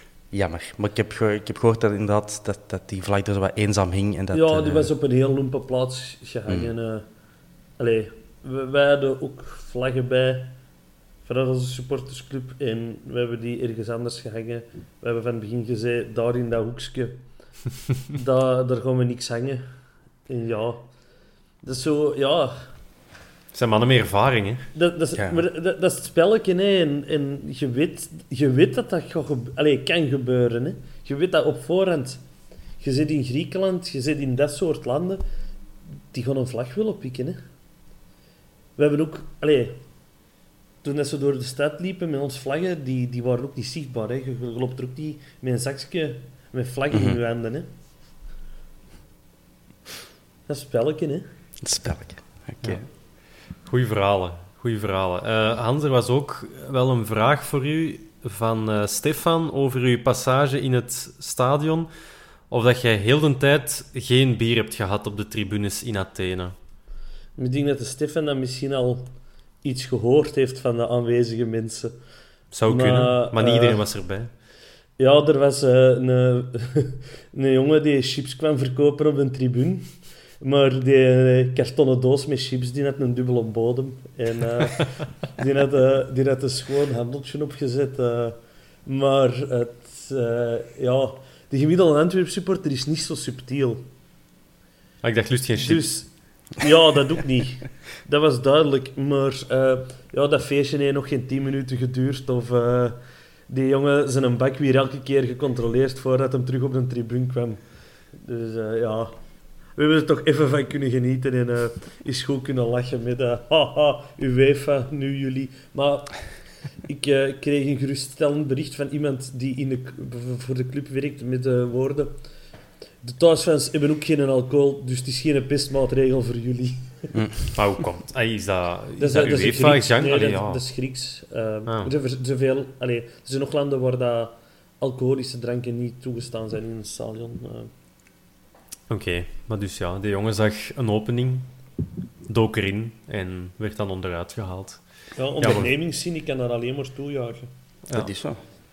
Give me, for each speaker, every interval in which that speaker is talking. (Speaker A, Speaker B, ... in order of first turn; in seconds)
Speaker A: 0.3-4.9, 6.5-6.7, 25.1-25.4, 46.9-47.2, 51.6-52.8, 127.1-127.4, 147.9-148.4
Speaker B: 4.3-7.0, 7.8-10.6, 11.2-17.2, 18.1-19.6, 20.3-20.9, 21.6-22.7, 24.7-32.2, 32.8-35.2, 36.1-37.4, 38.8-39.8, 40.8-47.7, 50.5-51.3, 67.4-69.1, 69.6-72.0, 72.7-73.8, 75.0-93.9, 95.6-103.0, 103.5-107.6, 108.1-109.1, 109.7-116.3, 116.8-122.2, 123.0-127.1, 129.0-137.7, 145.2-147.5
Speaker C: 23.5-24.6, 53.6-61.9, 62.5-66.5, 72.5-74.3, 95.0-96.0, 127.5-130.6, 138.9-141.5, 142.2-144.8, 145.4-145.7, 147.9-148.1